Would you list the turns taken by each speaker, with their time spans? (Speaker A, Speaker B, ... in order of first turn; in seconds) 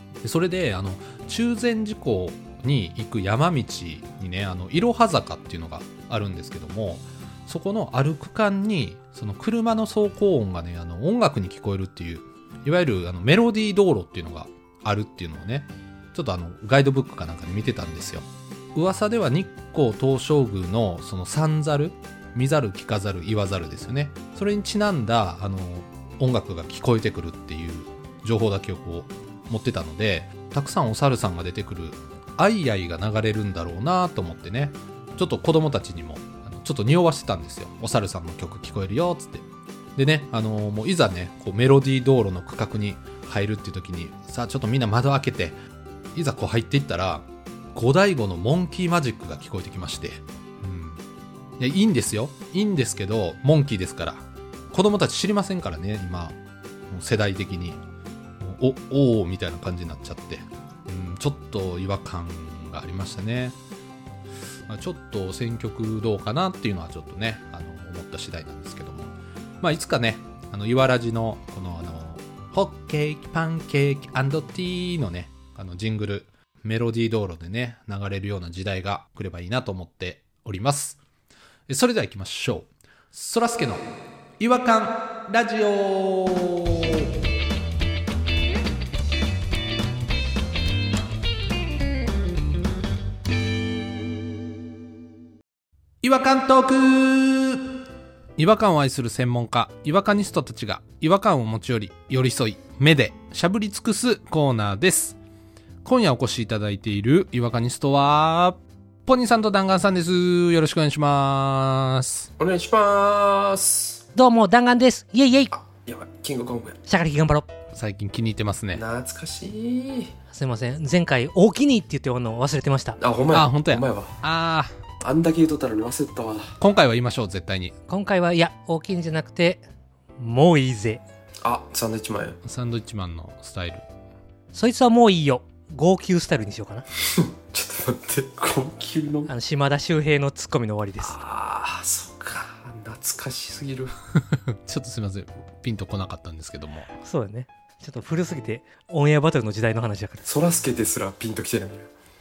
Speaker A: 0.2-39.4, 40.0-45.5, 46.1-51.0, 51.6-56.4, 56.9-57.8, 58.4-63.5, 64.7-81.0, 81.7-83.9, 84.4-87.0, 96.0-97.7, 98.4-105.2, 105.8-112.3, 117.7-118.8, 123.3-124.7, 126.6-127.7, 132.4-133.8, 144.1-146.9
Speaker B: 112.4-114.0, 115.5-116.8, 118.7-120.1, 123.0-124.2, 125.0-126.5, 131.4-132.4, 137.1-139.3, 141.0-143.9, 150.2-151.9
Speaker C: 114.1-115.5, 116.8-117.5, 120.3-123.0, 127.9-129.6, 130.2-131.0, 134.5-136.8, 139.3-141.2, 146.9-150.2